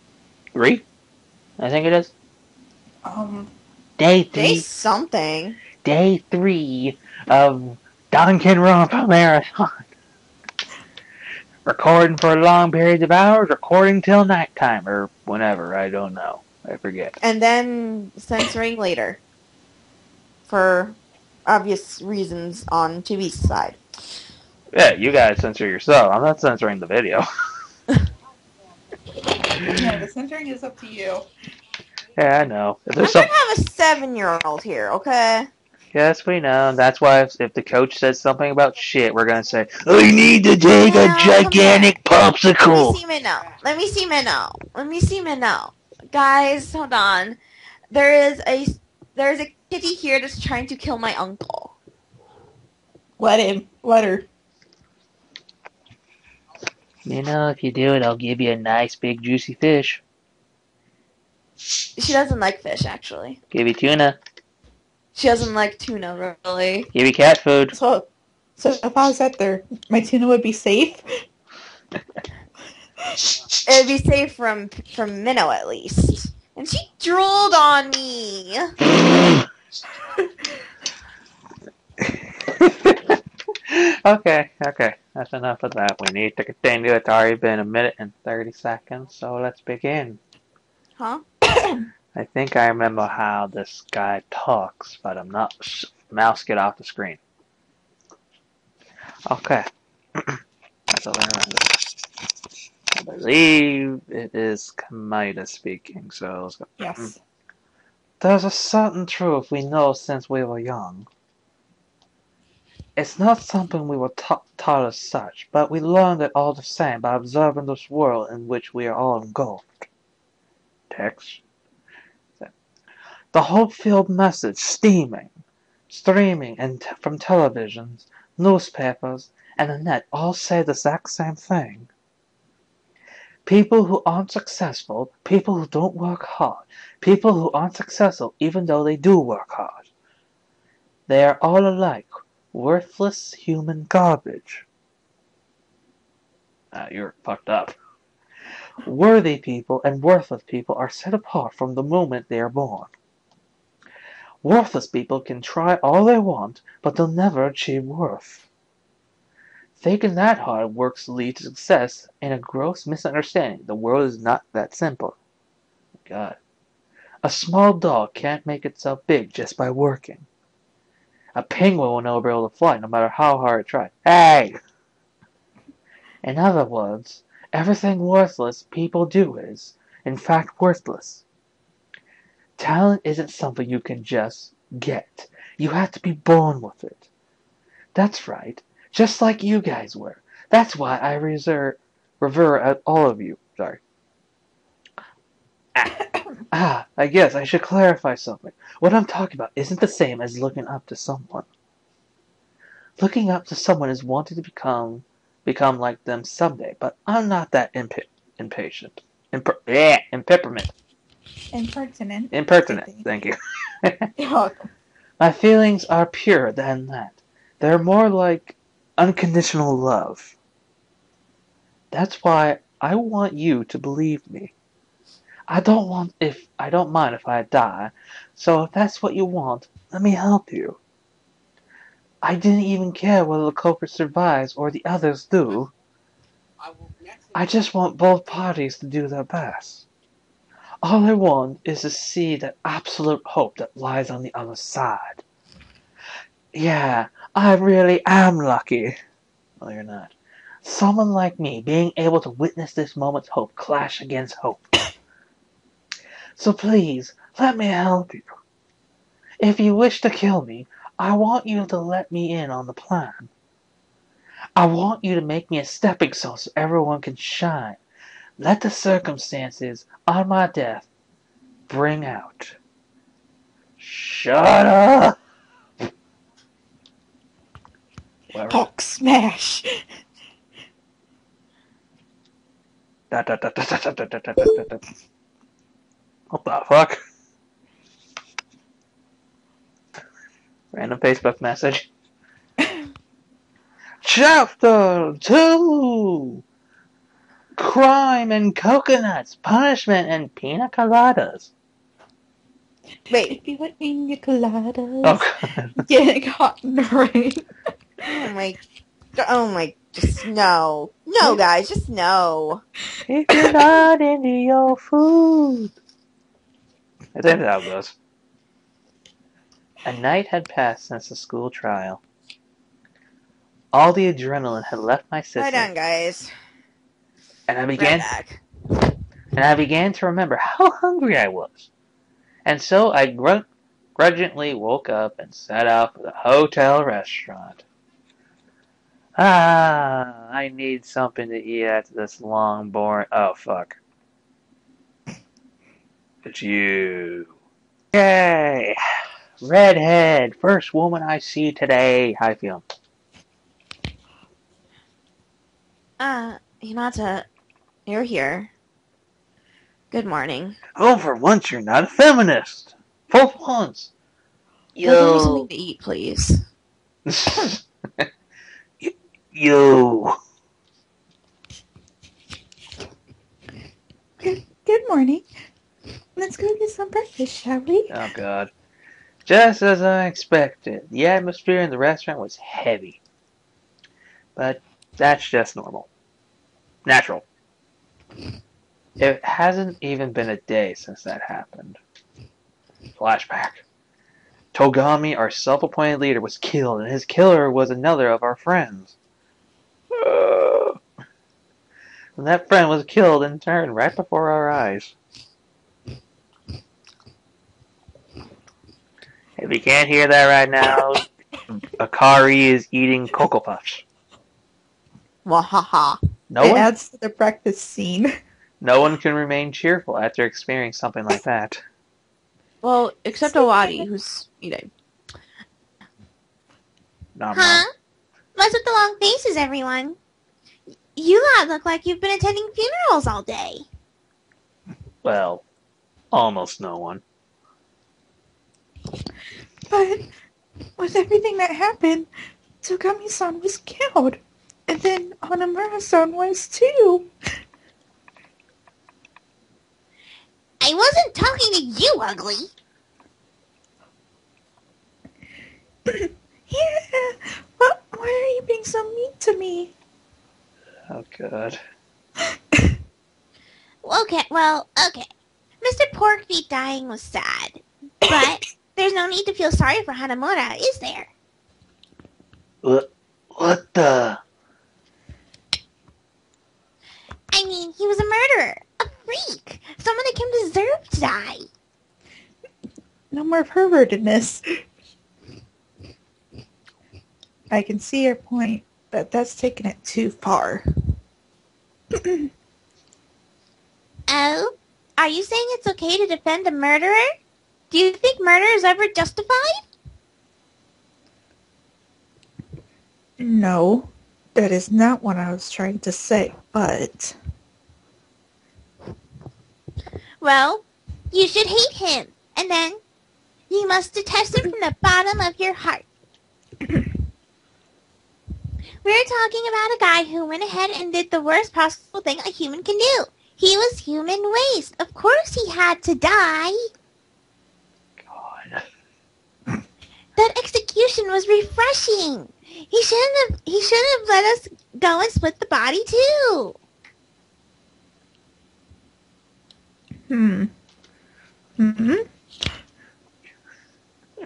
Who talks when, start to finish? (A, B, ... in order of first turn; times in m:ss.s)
0:00.5-0:00.8 A
0:01.6-0:02.1 A
0:03.0-0:03.5 B
0:04.0-0:04.6 A
0:04.3-0:05.6 C
0:05.8-0:09.9 A
0:11.6-0:17.2 A
0:17.2-0:19.2 C
0:20.5-0:23.8 C
0:24.7-0:27.2 A
0:29.7-0:31.3 B
0:32.2-0:33.3 A
0:33.0-0:35.5 C
0:35.9-0:43.0 A
0:40.8-0:41.9 C
0:42.6-0:47.4 C
0:47.9-0:51.7 C
0:53.2-0:54.3 B
0:57.1-1:00.0 A
1:02.0-1:03.4 C
1:03.5-1:04.2 A
1:05.2-1:06.9 C
1:06.9-1:07.8 A
1:07.7-1:11.2 B
1:13.6-1:18.7 C
1:22.0-1:30.2 A
1:31.0-1:31.2 C
1:32.1-1:37.2 A
1:39.3-1:42.0 A
1:42.9-1:47.1 A
1:46.8-1:47.2 B
1:48.2-1:51.1 A
1:53.0-1:59.9 A
2:00.9-2:01.4 A
2:03.3-2:11.9 A
2:13.5-2:19.9 A
2:21.1-2:24.6 A
2:26.7-2:27.8 A
2:28.8-2:32.9 A
2:34.4-2:38.5 A
2:39.8-2:45.2 A
2:46.0-2:46.4 A
2:47.2-2:50.3 A
2:51.4-2:54.6 A
2:56.2-3:01.2 A
3:02.6-3:07.1 A
3:08.0-3:13.8 A
3:16.0-3:16.4 B
3:16.5-3:21.5 A
3:23.0-3:30.7 A
3:31.5-3:33.1 B
3:32.3-3:34.1 A
3:34.2-3:34.7 B
3:35.2-3:40.4 A
3:41.9-3:44.5 A
3:45.5-3:50.8 A
3:52.2-3:55.7 A
3:57.4-3:59.9 A
4:00.8-4:05.2 A
4:06.5-4:09.0 A
4:09.6-4:14.6 A
4:16.4-4:18.3 A
4:19.4-4:23.3 A
4:24.6-4:27.8 A
4:28.4-4:30.9 A
4:31.7-4:32.6 A
4:33.8-4:35.2 A
4:38.3-4:38.7 A
4:38.5-4:39.8 B
4:43.1-4:44.8 A
4:46.3-4:47.0 A
4:50.7-4:51.9 A
4:54.0-4:56.4 A
4:57.6-5:01.5 A
5:03.1-5:03.4 C
5:03.1-5:05.2 B
5:05.0-5:05.8 A
5:05.8-5:07.5 B
5:08.0-5:08.6 C
5:09.2-5:12.6 C
5:13.1-5:15.7 A
5:13.4-5:13.7 B
5:17.2-5:18.0 A
5:19.8-5:22.0 A
5:23.7-5:25.7 A
5:25.4-5:26.3 C
5:27.5-5:28.1 A
5:27.8-5:28.4 C
5:29.3-5:31.7 A
5:32.4-5:33.4 A
5:34.0-5:37.6 A
5:39.2-5:43.8 A
5:46.2-5:47.3 A
5:47.9-5:48.8 A
5:49.4-5:52.6 A
5:56.0-5:57.3 C
5:57.9-5:58.5 C
5:59.9-6:00.6 C
6:00.8-6:03.9 A
6:04.8-6:05.5 A
6:04.8-6:06.4 C
6:07.1-6:08.1 A
6:08.8-6:10.2 A
6:14.2-6:15.3 B
6:16.2-6:18.0 B
6:17.9-6:18.5 A
6:19.2-6:23.0 A
6:24.4-6:25.9 A
6:26.8-6:27.2 A
6:29.0-6:31.8 A
6:33.0-6:33.6 A
6:34.5-6:38.9 A
6:39.9-6:40.8 A
6:42.2-6:45.0 A
6:49.4-6:51.0 A
6:51.8-6:53.8 A
6:55.2-6:56.0 C
6:56.3-6:56.7 A
6:56.4-6:58.2 B
6:58.6-7:01.6 A
7:02.6-7:04.7 C
7:07.2-7:07.6 A
7:07.3-7:07.7 D
7:08.4-7:10.0 D
7:11.0-7:13.6 D
7:15.0-7:15.4 A
7:16.1-7:17.0 A
7:19.7-7:20.1 B
7:20.8-7:22.1 B
7:22.6-7:27.1 B
7:30.6-7:32.5 D
7:35.9-7:39.7 B
7:40.9-7:41.6 A
7:43.8-7:45.1 D
7:45.6-7:51.1 D
7:52.6-7:54.2 A
7:57.3-8:01.5 D
8:03.1-8:04.6 B
8:07.5-8:10.7 B
8:11.9-8:12.3 B
8:14.1-8:17.1 D
8:17.7-8:19.6 D
8:23.2-8:27.2 B
8:30.2-8:32.8 D
8:33.5-8:35.8 D
8:38.8-8:46.7 D
8:48.0-8:48.6 A
8:50.2-8:56.6 D
9:00.1-9:00.5 B
9:01.6-9:02.1 B